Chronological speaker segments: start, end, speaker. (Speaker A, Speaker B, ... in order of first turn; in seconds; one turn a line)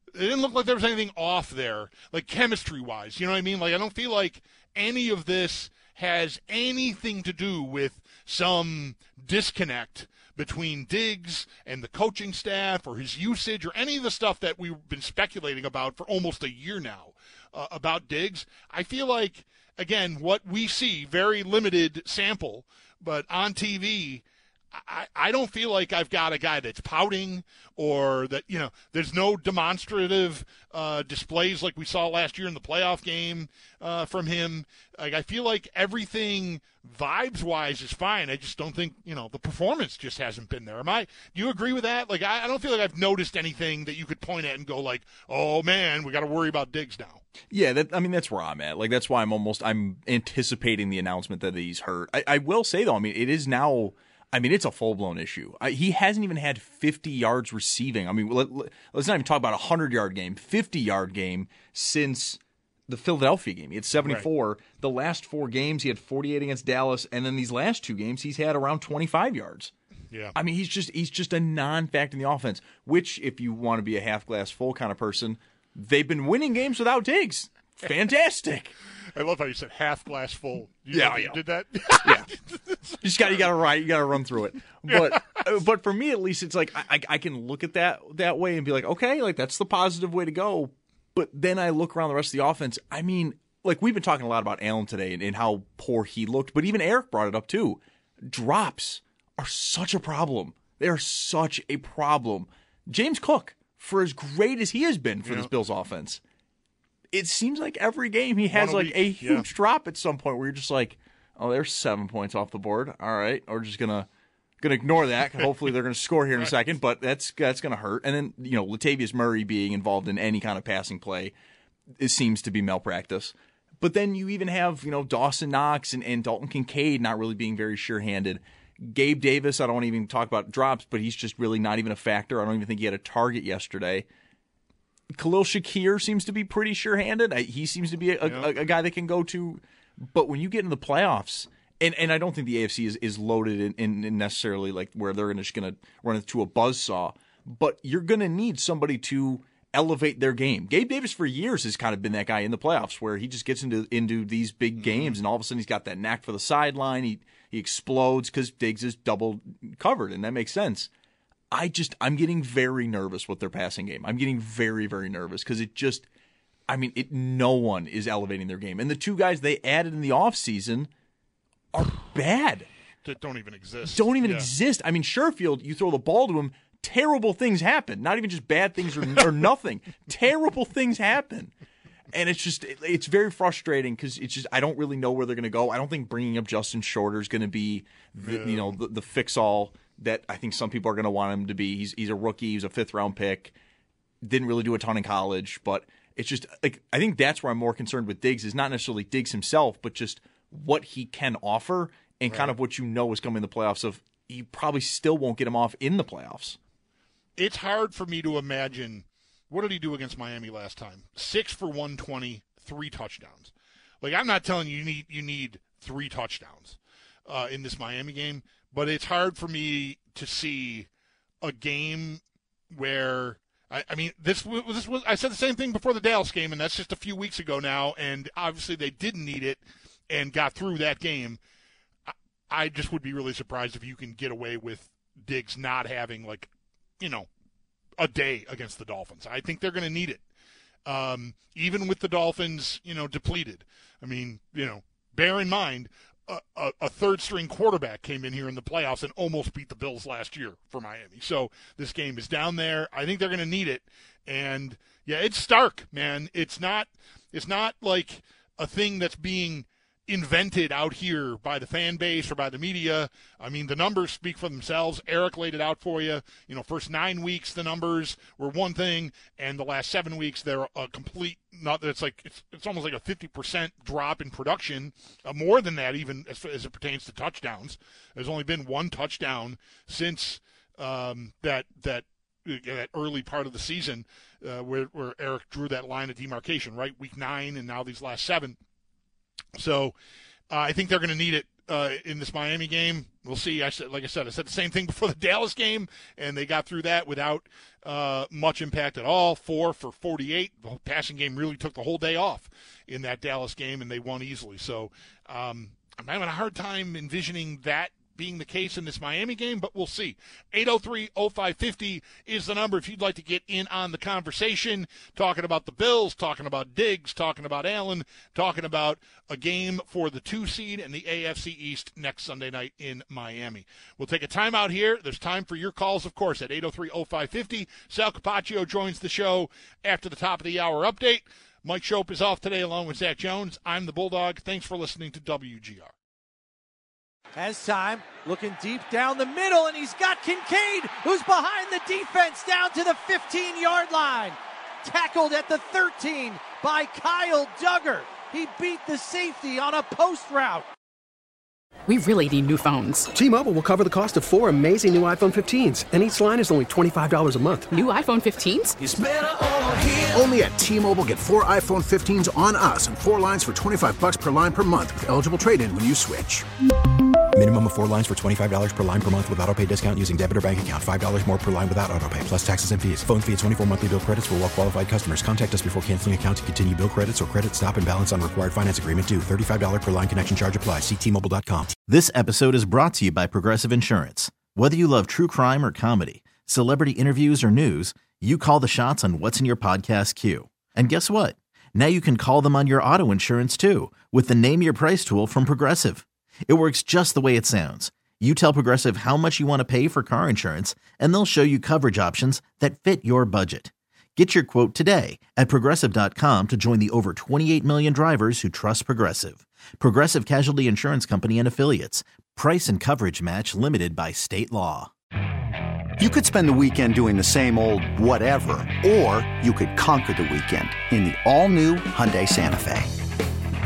Speaker A: 0.1-47.2
Speaker B: 47.5-69.7
Speaker A: 64.0-64.3
Speaker B: 70.3-78.7
Speaker A: 79.1-83.0
Speaker B: 80.9-81.4
Speaker B: 81.9-82.2
Speaker B: 83.0-106.2
Speaker A: 84.9-85.4
Speaker A: 105.2-105.5
Speaker B: 107.1-114.1
Speaker A: 108.5-109.5
Speaker B: 114.6-121.3
Speaker B: 122.0-134.1
Speaker B: 135.1-160.9
Speaker A: 138.2-138.5
Speaker A: 154.8-155.2
Speaker B: 161.5-166.1
Speaker B: 166.7-170.9
Speaker B: 171.7-172.7
Speaker A: 173.0-174.5
Speaker B: 173.9-181.5
Speaker B: 182.1-193.5
Speaker A: 188.2-188.8
Speaker B: 194.2-206.6
Speaker A: 202.3-202.6
Speaker A: 207.4-220.9
Speaker A: 221.4-231.4
Speaker A: 232.1-237.3
Speaker A: 238.0-240.2
Speaker A: 240.8-288.6
Speaker A: 289.6-289.9
Speaker A: 290.5-335.9
Speaker C: 337.4-350.7
Speaker D: 351.9-353.1
Speaker E: 353.1-357.7
Speaker D: 357.7-358.8
Speaker F: 358.8-359.1
Speaker F: 360.0-366.4
Speaker G: 367.3-381.9
Speaker H: 381.9-414.9
Speaker G: 384.2-384.5
Speaker G: 411.9-412.3
Speaker I: 416.0-422.9